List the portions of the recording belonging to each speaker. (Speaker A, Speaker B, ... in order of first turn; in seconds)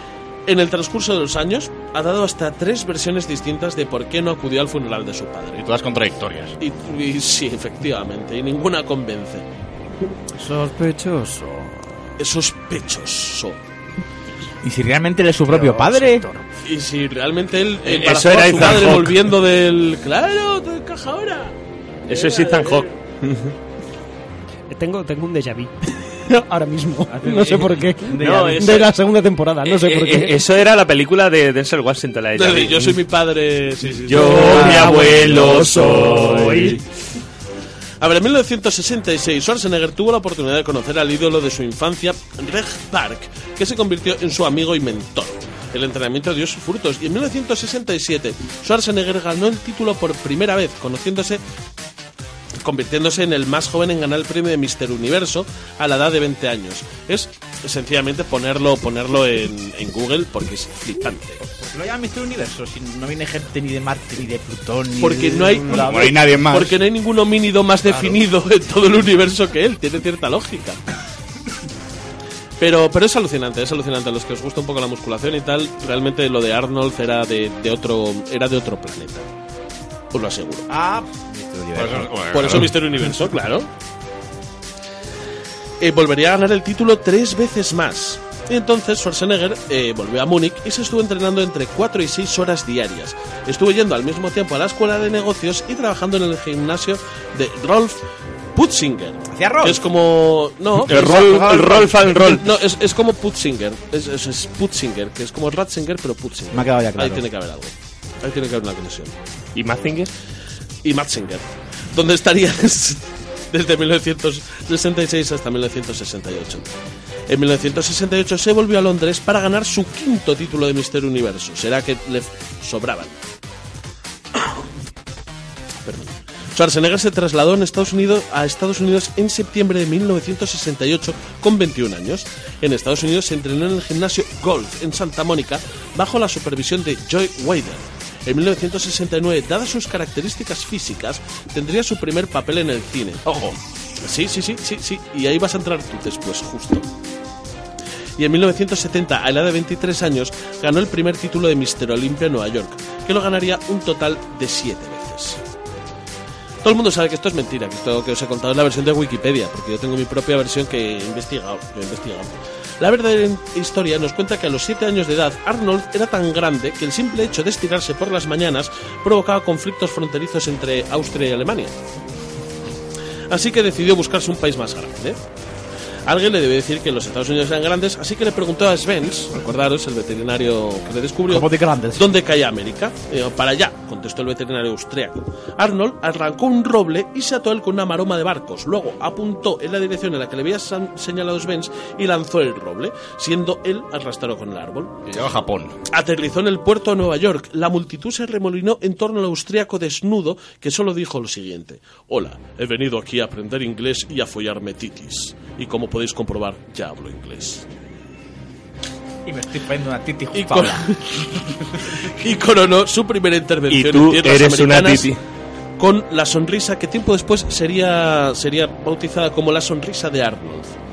Speaker A: 0.5-5.7, 6.6-9.5, 12.2-13.6, 16.6-21.6, 22.1-22.9, 32.4-35.8, 38.0-51.4, 52.6-61.4, 65.0-70.8, 72.6-79.3, 80.1-80.7, 82.3-83.7, 85.8-98.0, 98.5-109.1, 110.8-116.6, 117.3-123.2, 125.8-143.2, 144.0-146.9, 148.2-155.4, 156.6-171.7, 173.3-175.2, 176.1-195.0, 195.9-207.7, 210.3-211.1, 211.9-215.1, 215.8-220.8
Speaker B: 5.6-6.5, 65.7-66.8, 81.7-82.7, 195.1-195.8
Speaker C: 10.4-11.8, 15.5-16.5, 24.7-30.4, 34.1-36.8
Speaker D: 14.6-16.3, 27.1-28.6, 61.4-66.1, 80.7-82.1, 99.3-99.8, 100.9-101.9, 106.5-107.2, 143.3-143.6, 181.3-182.1, 209.2-210.9
Speaker E: 17.9-19.3, 22.1-22.9, 28.2-28.9, 29.6-33.0, 34.1-36.8, 100.9-102.5, 109.5-110.1, 213.7-215.2